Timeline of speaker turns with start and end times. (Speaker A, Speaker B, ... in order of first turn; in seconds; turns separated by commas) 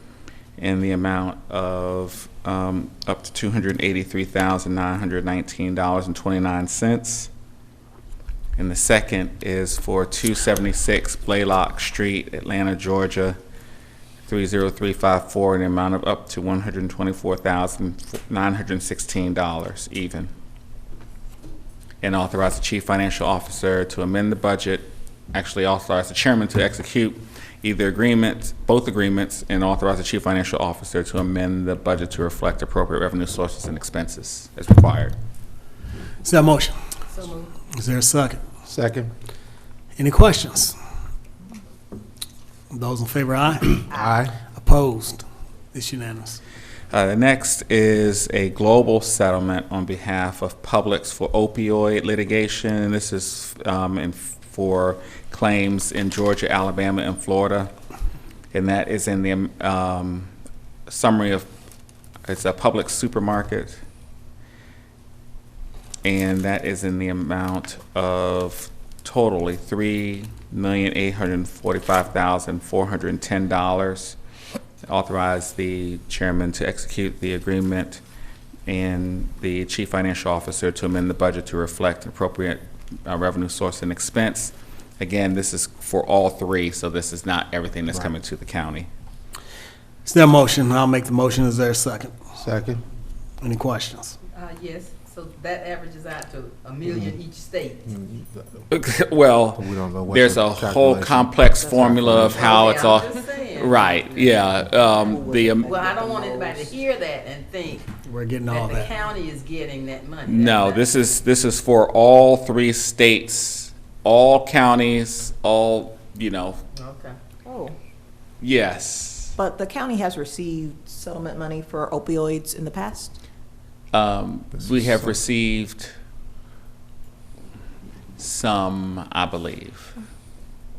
Speaker A: 0.6-7.3, Speaker A: 8.6-13.4, Speaker A: 14.3-20.3, Speaker A: 22.0-35.1, Speaker B: 36.2-36.9, Speaker C: 37.1-37.5, Speaker B: 37.7-38.4, Speaker D: 38.7-39.1, Speaker B: 40.0-40.8, Speaker B: 42.7-43.9, Speaker D: 43.9-44.3, Speaker E: 43.9-44.2, Speaker B: 44.5-46.4, Speaker A: 46.9-57.7, Speaker A: 58.5-60.3, Speaker A: 60.9-61.5, Speaker A: 62.2-63.8, Speaker A: 66.0-74.2, Speaker A: 74.9-78.0, Speaker A: 78.7-88.9, Speaker B: 90.0-92.3, Speaker D: 92.3-92.8, Speaker B: 93.4-94.2, Speaker C: 94.3-97.8, Speaker D: 97.9-98.3, Speaker A: 98.7-105.7, Speaker D: 99.5-102.6, Speaker C: 102.2-104.5, Speaker E: 104.9-106.7, Speaker C: 105.6-107.9, Speaker B: 108.0-108.9, Speaker C: 108.5-110.8, Speaker A: 110.2-116.6, Speaker C: 116.7-117.1, Speaker E: 117.4-117.7, Speaker A: 118.4-119.3, Speaker E: 119.3-123.2, Speaker A: 123.9-125.9, Speaker A: 128.2-129.9